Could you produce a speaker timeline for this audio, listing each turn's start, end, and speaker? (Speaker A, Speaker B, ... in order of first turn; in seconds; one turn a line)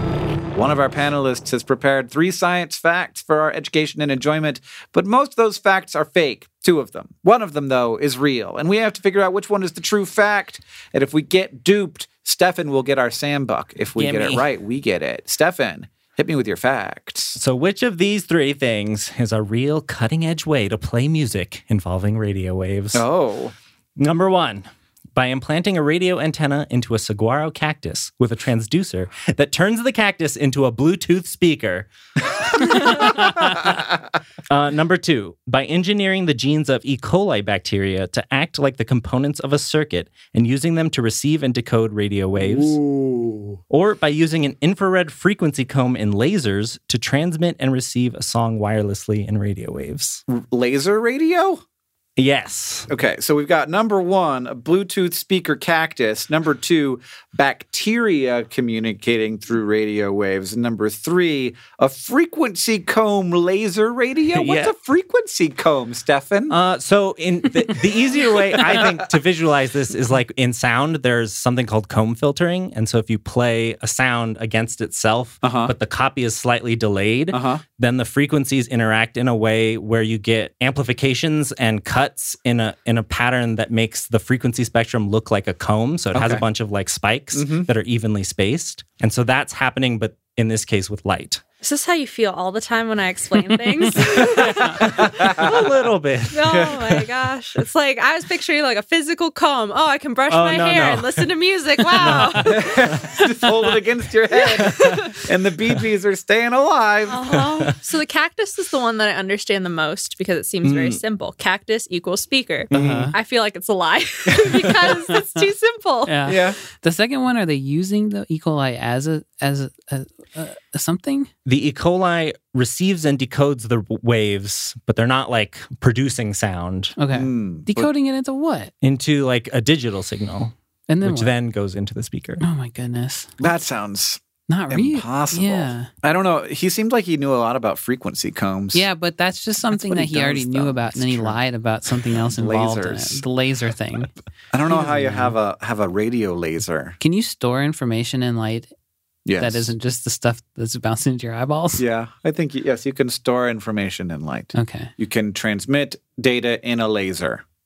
Speaker A: 0.5-17.4
Speaker B: 13.9-14.4
Speaker B: 17.4-23.0
Speaker A: 22.9-23.5
Speaker B: 24.0-31.9
Speaker B: 32.4-33.8
Speaker B: 34.5-42.8
Speaker A: 42.4-43.6
Speaker B: 43.7-50.2
Speaker A: 50.3-51.6
Speaker B: 52.2-52.9
Speaker A: 52.9-66.5
Speaker B: 64.3-64.7
Speaker B: 66.5-91.4
Speaker A: 75.4-75.7
Speaker A: 77.3-77.6
Speaker A: 86.1-86.4
Speaker A: 87.3-87.7
Speaker C: 91.6-95.6
Speaker B: 94.1-97.0
Speaker A: 94.8-95.5
Speaker C: 96.3-102.7
Speaker A: 96.5-96.8
Speaker B: 100.3-101.3
Speaker B: 102.0-103.2
Speaker A: 102.4-107.4
Speaker C: 104.3-105.2
Speaker B: 104.7-104.9
Speaker C: 107.1-116.4
Speaker B: 110.7-111.0
Speaker B: 112.7-113.1
Speaker A: 112.7-113.1
Speaker D: 112.7-113.1
Speaker D: 116.0-121.3
Speaker A: 116.2-116.6
Speaker B: 121.5-126.9
Speaker D: 127.0-128.7
Speaker A: 127.1-127.9
Speaker B: 128.8-132.4
Speaker D: 130.9-131.3
Speaker D: 132.4-133.4
Speaker A: 133.4-138.9
Speaker D: 134.5-135.9
Speaker D: 138.7-144.1
Speaker A: 139.7-141.4
Speaker A: 142.2-143.2
Speaker A: 144.5-147.0
Speaker D: 144.7-145.3
Speaker D: 147.0-148.7
Speaker A: 149.2-149.7
Speaker D: 149.4-151.8
Speaker A: 151.8-157.4
Speaker D: 154.5-154.9